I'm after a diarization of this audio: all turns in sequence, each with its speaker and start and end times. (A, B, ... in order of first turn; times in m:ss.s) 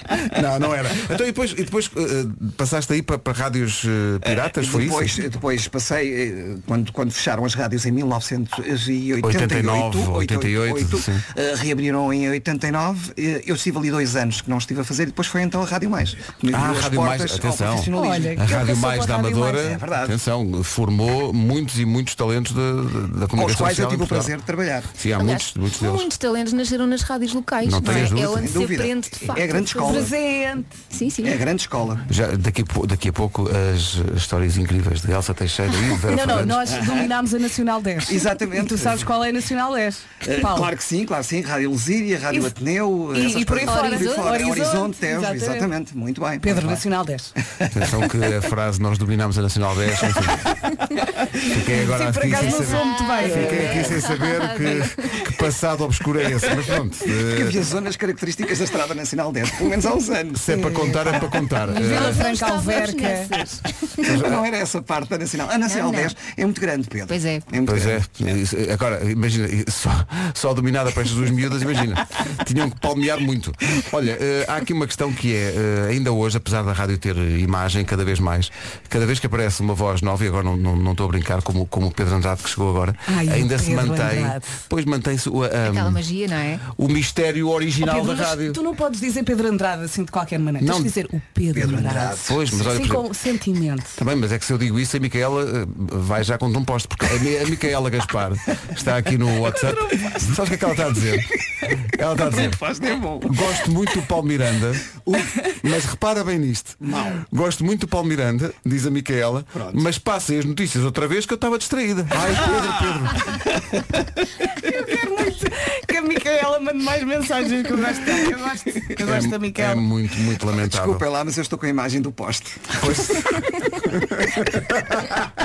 0:00.3-0:05.1 A
0:04.2-0:18.4 B
0:09.2-0:11.2 A
0:16.5-0:24.3 A
0:17.9-0:19.7 C
0:19.6-0:20.2 B
0:23.3-0:24.9 B
0:24.9-0:26.1 A
0:25.2-0:30.1 D
0:27.6-0:28.5 A
0:27.9-0:30.1 B
0:29.7-0:30.7 C
0:30.9-0:31.4 D
0:31.2-0:32.0 B
0:32.1-0:36.7 A
0:36.1-0:40.7 C
0:36.7-0:37.1 B
0:38.1-0:39.1 B
0:40.2-0:46.8 B
0:43.1-0:45.7 C
0:43.7-0:44.5 D
0:46.4-0:47.3 C
0:47.5-0:47.9 B
0:47.7-0:50.4 A
0:51.5-0:57.6 A
0:51.6-0:53.9 C
0:52.3-0:55.1 D
0:57.3-1:00.5 B
1:00.3-1:02.2 A
1:00.5-1:03.5 C
1:01.6-1:04.2 D
1:04.0-1:04.4 A
1:04.2-1:08.0 B
1:05.6-1:06.1 D
1:07.1-1:07.5 D
1:07.6-1:26.0 A
1:23.1-1:24.6 C
1:25.6-1:26.6 D
1:26.7-1:28.6 A
1:27.8-1:34.0 C
1:30.6-1:30.9 A
1:31.5-1:32.4 B
1:32.2-1:33.0 A
1:34.0-1:41.3 A
1:41.9-1:42.6 A
1:42.3-1:43.5 B
1:43.2-1:44.8 A
1:45.0-1:45.3 B
1:45.6-1:53.4 A
1:46.8-1:47.2 B
1:49.5-1:49.8 B
1:52.4-1:53.8 B
1:54.6-1:59.8 C
1:59.0-2:01.0 A
2:00.5-2:03.4 B
2:02.8-2:05.2 A